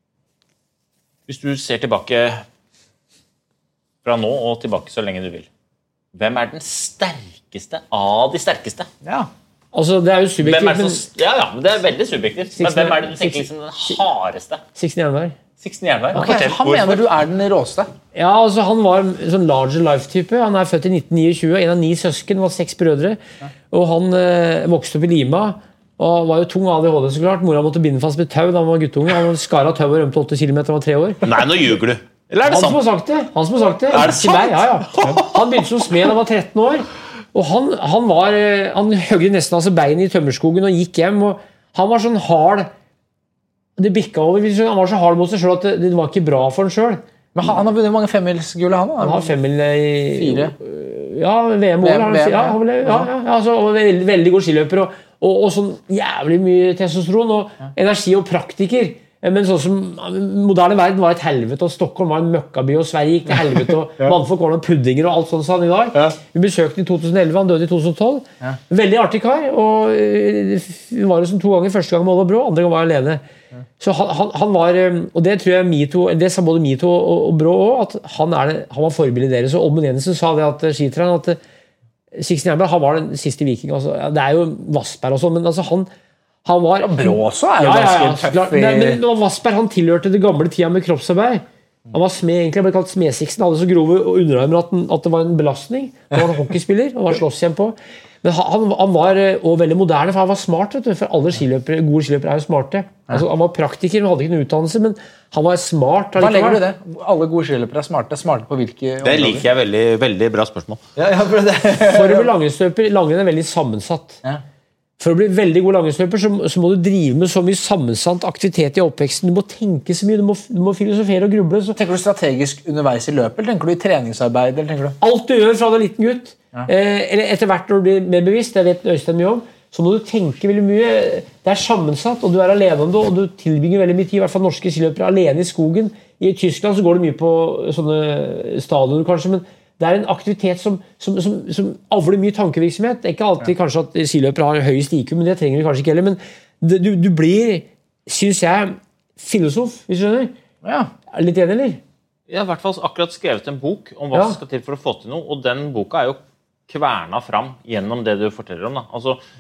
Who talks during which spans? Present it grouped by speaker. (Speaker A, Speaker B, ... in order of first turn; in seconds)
Speaker A: 1.3-2.4, 4.0-5.5, 6.2-8.9, 10.4-14.6, 15.6-17.1, 31.2-32.8, 33.9-35.3, 109.0-110.8, 152.3-159.2
Speaker B: 9.0-9.3, 16.1-17.9, 47.4-49.3, 50.1-50.5, 51.8-53.1, 86.8-89.0, 106.2-109.5, 111.0-112.3, 121.8-125.0, 150.6-150.9
Speaker C: 9.7-11.0, 12.6-13.9, 14.8-15.4, 16.1-16.4, 18.1-23.2, 23.7-31.2, 32.4-42.7, 43.8-47.0, 49.0-73.2, 73.8-81.4, 82.1-85.9, 86.5-106.6, 111.9-114.2, 115.0-121.8, 125.0-150.3, 151.1-151.8, 154.1-154.4